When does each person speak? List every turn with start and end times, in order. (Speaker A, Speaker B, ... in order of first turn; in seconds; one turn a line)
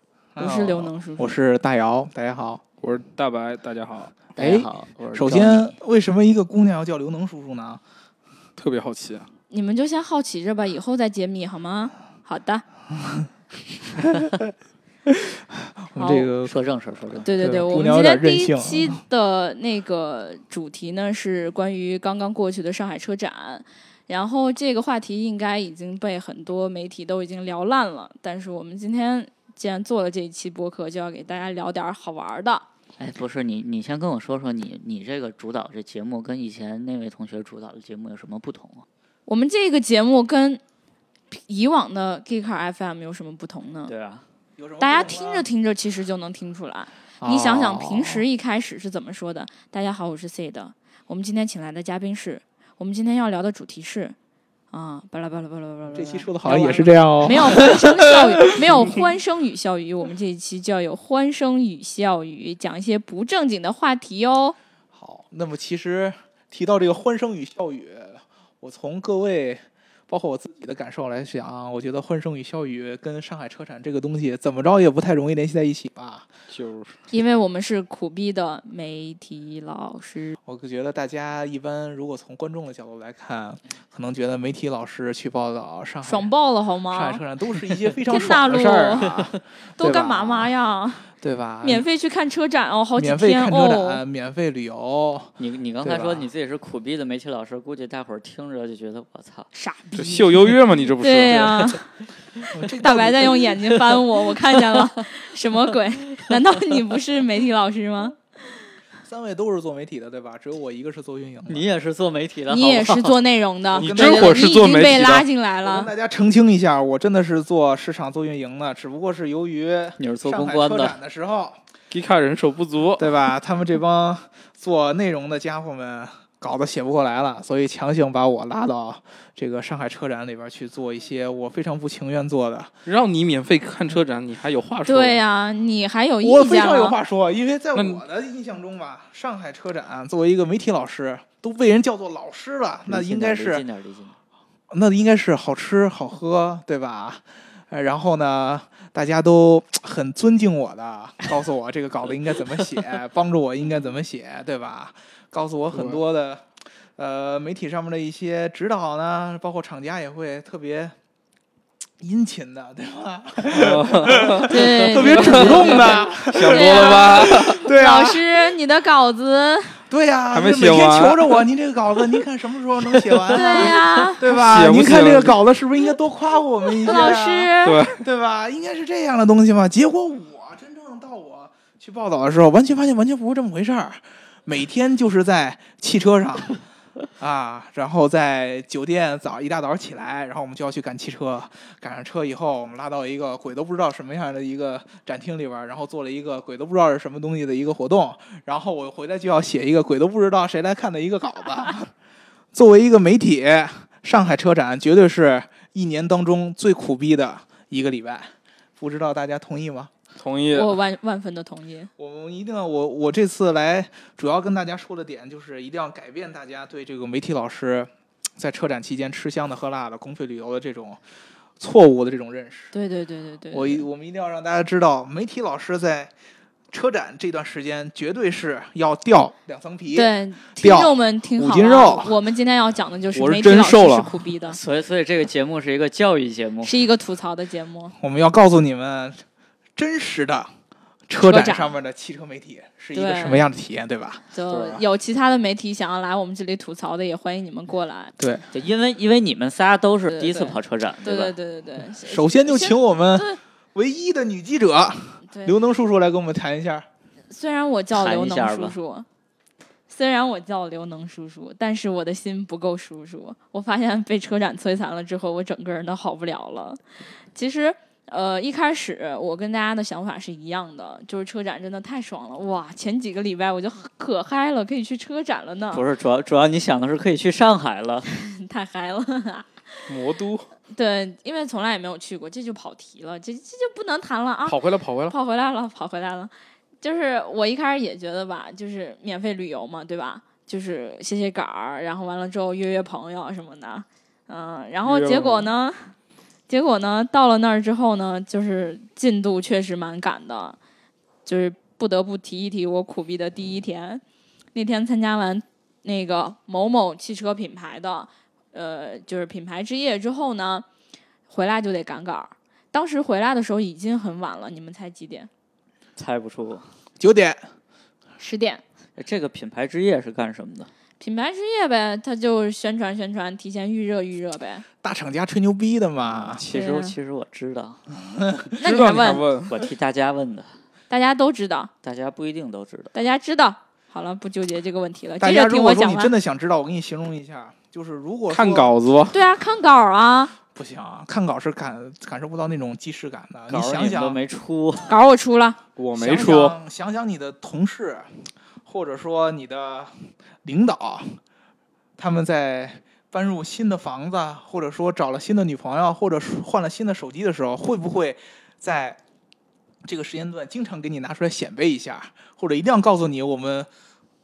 Speaker A: 0.3-2.6
Speaker B: 0.4-1.3
Speaker C: 2.8-4.3
Speaker D: 4.3-5.7
Speaker A: 4.4-7.8
Speaker C: 8.6-9.3
Speaker B: 9.5-12.6
Speaker A: 13.0-13.3
Speaker A: 14.0-14.3
Speaker A: 15.1-16.5
Speaker B: 16.0-16.3
Speaker D: 16.4-17.6
Speaker B: 17.2-32.6
Speaker A: 17.2-19.0
Speaker D: 33.0-38.9
Speaker B: 39.2-40.6
Speaker B: 41.3-43.9
Speaker D: 43.9-44.2
Speaker A: 44.6-45.5
Speaker B: 44.8-54.1
Speaker A: 47.2-48.2
Speaker B: 54.7-64.5
Speaker A: 55.9-59.0
Speaker A: 64.9-76.3
Speaker C: 76.5-77.0
Speaker B: 77.1-80.4
Speaker A: 80.5-86.3
Speaker B: 86.0-87.2
Speaker A: 86.9-90.5
Speaker B: 88.1-89.1
Speaker B: 89.8-91.1
Speaker A: 91.2-91.8
Speaker B: 91.6-94.0
Speaker A: 93.0-96.3
Speaker D: 95.4-99.5
Speaker B: 99.5-100.4
Speaker C: 99.9-101.7
Speaker B: 101.0-101.9
Speaker A: 102.5-103.4
Speaker B: 102.8-108.2
Speaker D: 103.4-105.0
Speaker A: 109.0-111.7
Speaker D: 111.5-113.1
Speaker B: 112.5-115.9
Speaker C: 113.8-115.2
Speaker A: 113.8-114.4
Speaker A: 115.6-121.6
Speaker D: 120.0-121.0
Speaker C: 121.9-123.1
Speaker A: 123.0-132.7
Speaker C: 132.8-135.2
Speaker B: 134.8-136.9
Speaker A: 136.2-143.7
Speaker C: 137.7-138.0
Speaker D: 142.8-144.2
Speaker A: 144.7-160.9
Speaker C: 155.7-156.0
Speaker A: 162.0-168.2
Speaker C: 163.5-164.6
Speaker B: 164.5-169.8
Speaker D: 164.8-165.5
Speaker C: 165.1-167.6
Speaker A: 169.9-186.6
Speaker C: 170.3-171.4
Speaker D: 173.1-173.8
Speaker B: 173.3-174.2
Speaker C: 174.3-175.3
Speaker B: 176.8-177.8
Speaker C: 177.6-178.0
Speaker A: 187.2-201.9
Speaker A: 202.5-209.9
Speaker C: 210.2-210.7
Speaker B: 210.5-211.9
Speaker A: 212.0-221.0
Speaker A: 221.6-222.7
Speaker B: 222.7-223.8
Speaker A: 223.5-226.1
Speaker A: 226.7-232.2
Speaker B: 229.9-234.6
Speaker C: 233.1-234.3
Speaker D: 234.5-236.8
Speaker B: 236.6-237.9
Speaker A: 238.0-239.2
Speaker A: 239.8-240.5
Speaker A: 241.1-244.2
Speaker B: 241.2-241.7
Speaker B: 242.9-243.4
Speaker B: 244.3-248.1
Speaker C: 244.5-244.8
Speaker A: 248.2-248.5
Speaker D: 248.5-251.3
Speaker B: 250.1-253.4
Speaker A: 252.0-256.9
Speaker B: 255.3-255.5
Speaker B: 257.3-259.1
Speaker D: 257.9-258.8
Speaker B: 259.9-266.8
Speaker B: 267.3-275.8
Speaker D: 275.7-278.1
Speaker B: 278.1-279.9
Speaker C: 279.9-280.5
Speaker B: 280.7-295.9
Speaker C: 284.4-285.1
Speaker C: 294.8-295.5
Speaker B: 296.5-300.6
Speaker B: 301.2-304.0
Speaker B: 304.5-310.6
Speaker B: 311.3-315.3
Speaker D: 316.0-316.6
Speaker A: 317.0-317.4
Speaker B: 318.2-318.6
Speaker D: 318.9-320.7
Speaker B: 321.0-324.6
Speaker A: 324.8-326.4
Speaker D: 326.0-327.8
Speaker B: 326.5-326.9
Speaker A: 328.0-328.6
Speaker B: 328.6-329.2
Speaker C: 328.6-329.6
Speaker D: 329.5-330.5
Speaker B: 330.9-331.7
Speaker D: 331.8-332.9
Speaker B: 332.9-336.1
Speaker A: 335.2-338.8
Speaker C: 338.3-339.2
Speaker B: 339.1-340.3
Speaker A: 340.5-344.2
Speaker D: 343.5-344.9
Speaker B: 344.9-345.6
Speaker C: 345.8-346.6
Speaker A: 345.9-351.2
Speaker A: 352.0-359.0
Speaker A: 359.8-363.7